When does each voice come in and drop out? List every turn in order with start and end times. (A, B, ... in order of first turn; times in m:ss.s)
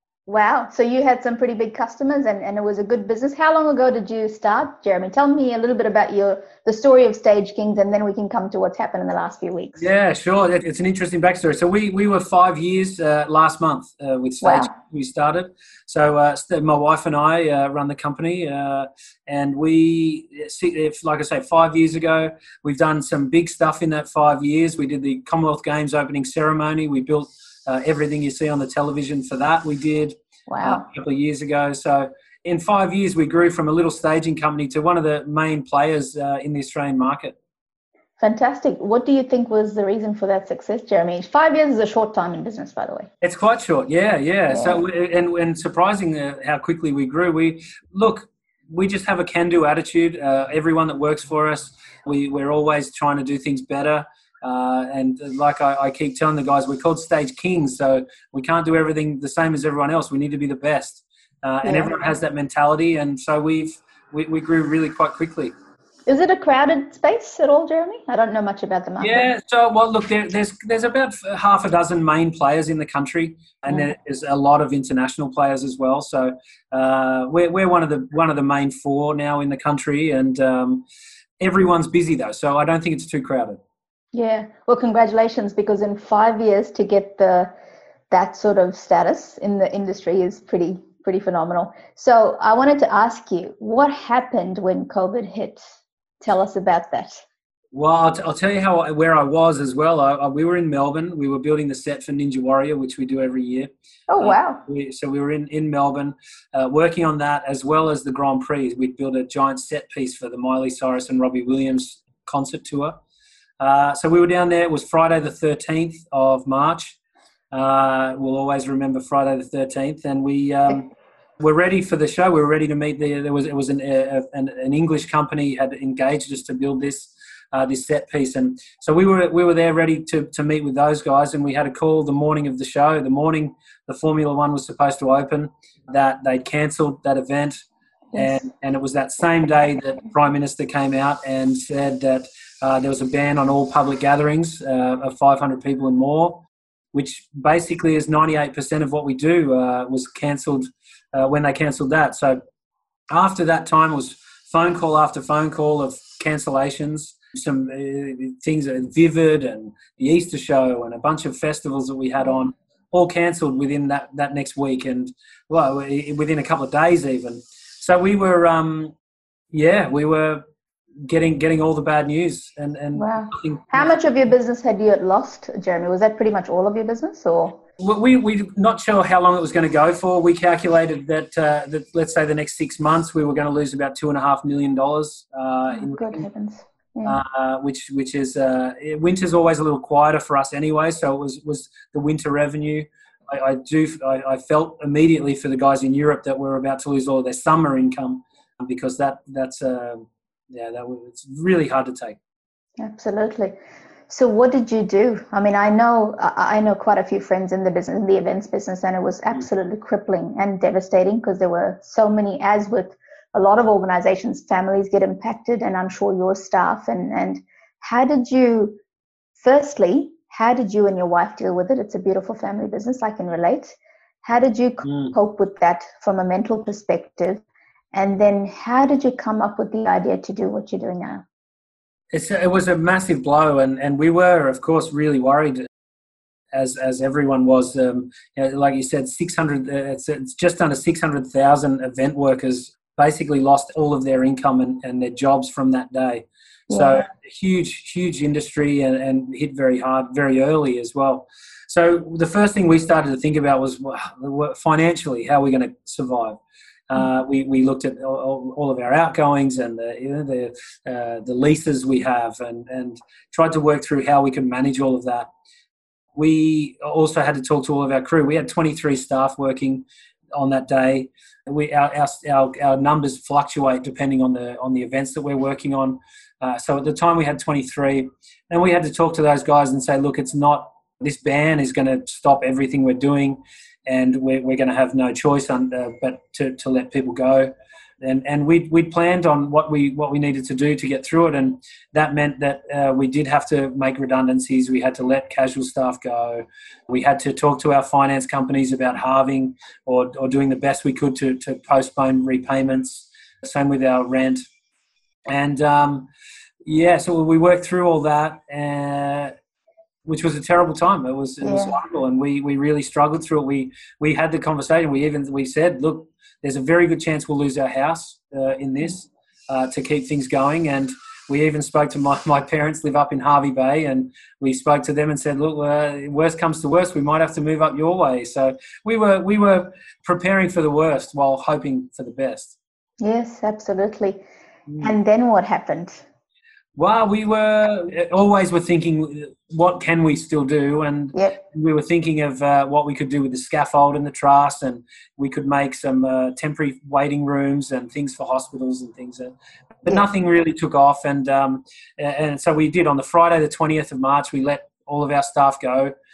0:00.3-0:09.9 A
0:09.8-0:37.4 B
0:14.4-0:14.7 A
0:30.5-0:30.8 A
0:38.2-0:43.1 A
0:43.2-1:05.5 B
0:44.5-0:44.8 A
1:01.6-1:02.1 A
1:06.1-1:09.3 A
1:09.0-1:20.8 B
1:21.4-1:23.6 B
1:24.1-1:27.5 A
1:28.1-1:35.6 A
1:36.2-1:37.2 A
1:37.7-1:53.0 B
1:44.1-1:44.6 A
1:53.6-1:57.0 B
1:57.5-2:00.9 B
2:01.4-2:17.6 B
2:18.1-2:18.4 A
2:18.1-2:32.4 B
2:33.1-2:48.9 B
2:49.5-2:50.4 B
2:51.0-2:53.9 B
2:52.9-2:57.6 A
2:57.8-3:06.2 B
3:05.7-3:07.2 A
3:07.0-3:22.2 B
3:22.8-3:23.6 A
3:24.1-3:38.8 A
3:39.4-3:51.2 A
3:44.8-3:45.1 B
3:52.1-3:55.6 B
3:56.5-4:25.3 B
4:06.7-4:07.0 A
4:26.2-5:04.4 B
5:05.3-5:06.1 B
5:06.6-5:09.3 B
5:10.0-5:32.6 B
5:11.4-5:11.8 A
5:33.0-5:34.2 A
5:34.7-5:34.9 B
5:34.8-5:36.0 A
5:36.8-5:55.9 B
5:41.1-5:41.4 A